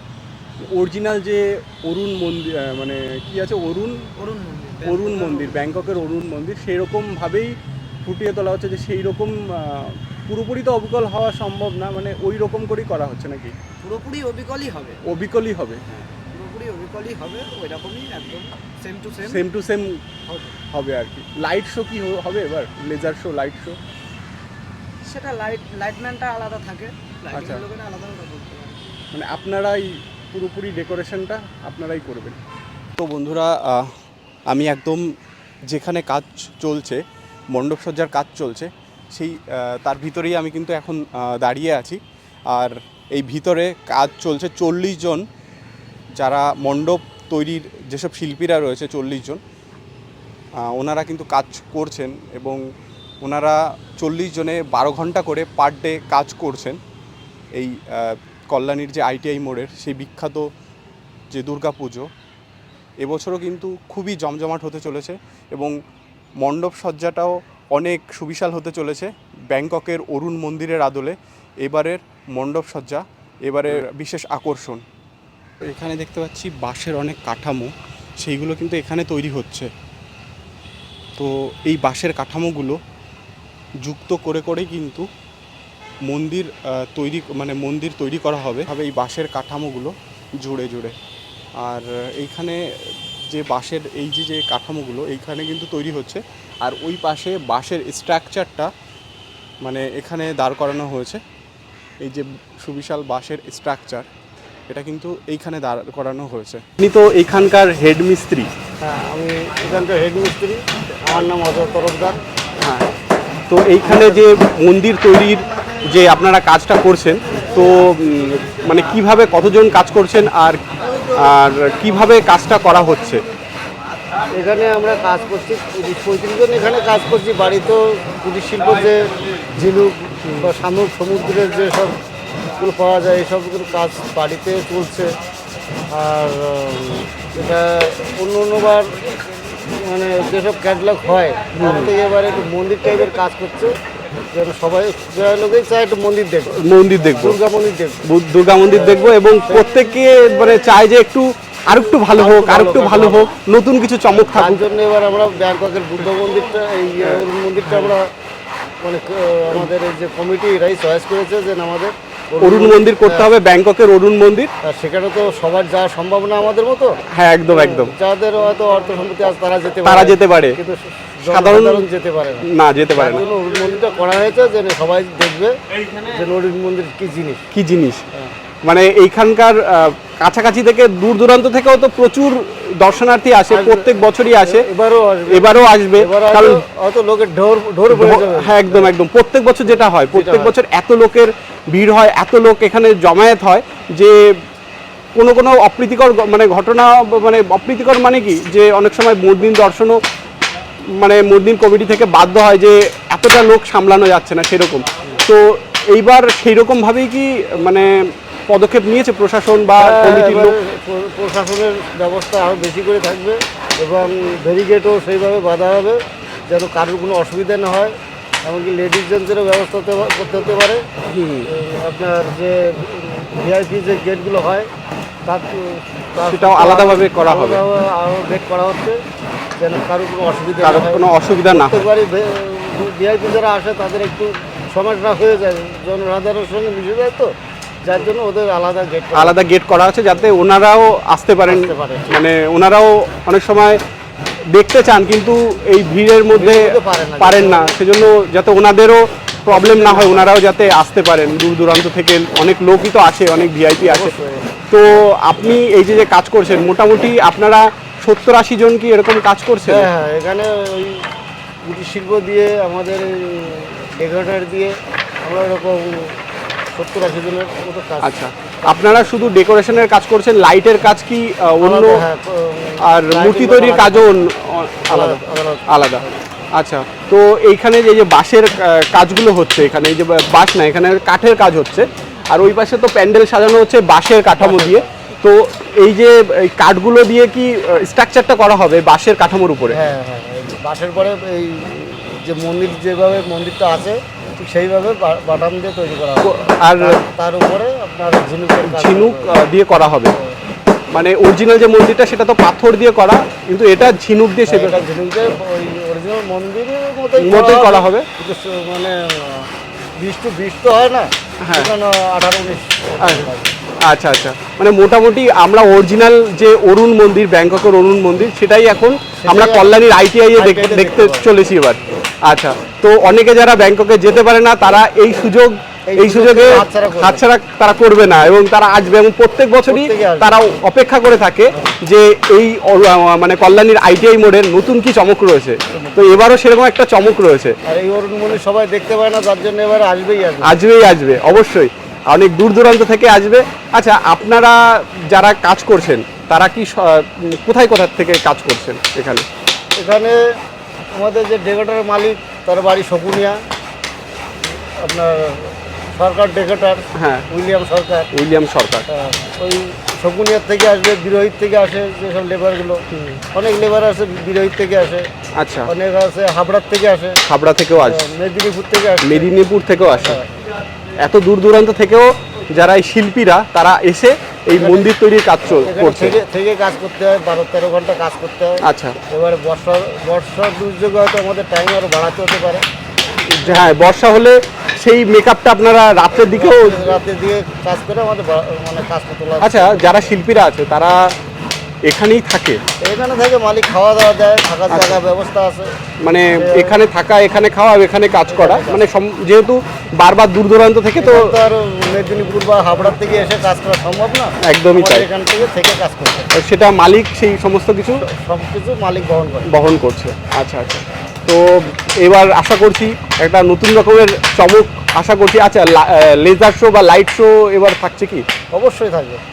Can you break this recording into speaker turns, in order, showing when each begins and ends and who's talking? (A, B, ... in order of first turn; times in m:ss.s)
0:00.6-0:04.1 A
0:04.2-0:06.0 B
0:04.8-0:13.6 A
0:13.8-0:15.0 B
0:15.0-0:15.8 A
0:15.9-0:19.5 B
0:19.2-0:20.0 A
0:20.3-0:20.6 B
0:20.7-0:23.8 A
0:25.0-0:28.8 B
0:27.3-0:27.6 A
0:29.1-0:32.4 A
0:33.0-0:33.9 A
0:34.5-0:35.1 A
0:35.7-0:45.2 A
0:46.2-0:49.4 A
0:50.6-0:52.6 A
0:53.2-0:56.8 A
0:57.5-1:00.5 A
1:01.3-1:02.1 A
1:03.0-1:05.8 A
1:06.4-1:14.8 A
1:15.6-1:19.7 A
1:21.2-1:22.8 A
1:23.8-1:25.1 A
1:26.0-1:31.0 A
1:31.6-1:38.7 A
1:39.6-1:41.2 A
1:42.0-1:44.1 A
1:44.7-1:48.5 A
1:48.8-1:52.2 C
1:52.6-1:52.9 A
1:53.5-2:03.2 A
1:53.8-1:54.3 C
2:04.3-2:12.0 C
2:10.2-2:10.5 A
2:12.6-2:15.1 C
2:15.9-2:19.0 C
2:19.6-2:23.7 C
2:21.6-2:21.9 A
2:24.3-2:28.0 C
2:26.5-2:27.4 A
2:28.0-2:34.6 A
2:28.7-2:29.7 C
2:32.1-2:33.3 C
2:34.1-2:38.1 C
2:37.0-2:38.0 A
2:38.8-2:43.3 C
2:42.4-2:44.5 A
2:44.6-2:55.5 C
2:47.1-2:47.9 A
2:49.8-2:50.6 A
2:51.2-2:51.9 A
2:52.4-2:53.3 A
2:56.1-2:57.4 C
2:57.5-2:58.0 A
2:58.6-3:04.6 A
3:03.5-3:08.9 C
3:05.3-3:06.6 A
3:07.9-3:14.4 A
3:10.0-3:10.5 C
3:15.2-3:20.0 A
3:20.8-3:30.6 A
3:29.8-3:40.8 C
3:41.1-3:41.5 A
3:41.5-3:44.7 C
3:45.3-3:49.0 C
3:46.3-3:47.6 A
3:49.6-3:57.3 C
3:50.6-3:51.8 A
3:57.8-3:59.4 C
3:59.1-4:03.8 A
4:01.5-4:02.2 C
4:04.5-4:14.1 A
4:06.3-4:07.8 C
4:09.5-4:10.3 C
4:13.9-4:14.5 C
4:14.7-4:19.9 A
4:19.7-4:21.0 C
4:21.6-4:26.2 C
4:26.8-4:29.4 C
4:28.0-4:32.1 A
4:31.6-4:34.3 C
4:32.8-4:49.8 A
4:34.9-4:36.2 C
4:44.4-4:44.9 C
4:49.7-4:59.4 C
4:56.2-4:57.0 A
4:58.6-5:00.1 A
5:00.9-5:04.8 A
5:04.5-5:09.5 C
5:07.2-5:08.1 A
5:10.0-5:13.5 C
5:11.4-5:11.7 A
5:13.0-5:13.3 A
5:13.8-5:37.6 A
5:19.2-5:19.7 C
5:20.3-5:21.4 C
5:25.9-5:27.3 C
5:29.7-5:30.4 C
5:35.7-5:36.2 C
5:37.7-5:40.6 C
5:40.4-5:49.3 A
5:49.8-5:50.2 C
5:50.9-5:53.4 C
5:54.4-5:58.1 C
5:57.0-5:57.3 A
5:58.1-5:58.9 A
5:58.9-6:02.8 C
6:02.9-6:03.2 A
6:03.3-6:05.1 C
6:05.4-6:05.7 A
6:05.7-6:07.2 C
6:07.3-6:08.0 A
6:07.8-6:09.3 C
6:09.0-6:10.2 A
6:09.9-6:10.3 C
6:11.0-6:16.2 A
6:14.5-6:22.6 C
6:18.6-6:19.0 A
6:23.3-6:27.0 A
6:23.4-6:23.8 C
6:26.1-6:30.1 C
6:29.4-6:31.2 A
6:31.9-6:32.6 A
6:32.8-6:35.8 C
6:34.7-6:35.0 A
6:36.0-6:41.4 A
6:36.4-6:36.8 C
6:38.3-6:38.9 C
6:41.0-6:46.3 C
6:44.4-6:45.1 A
6:46.3-6:48.1 A
6:48.0-6:49.5 C
6:49.4-6:58.3 A
6:58.5-6:59.2 C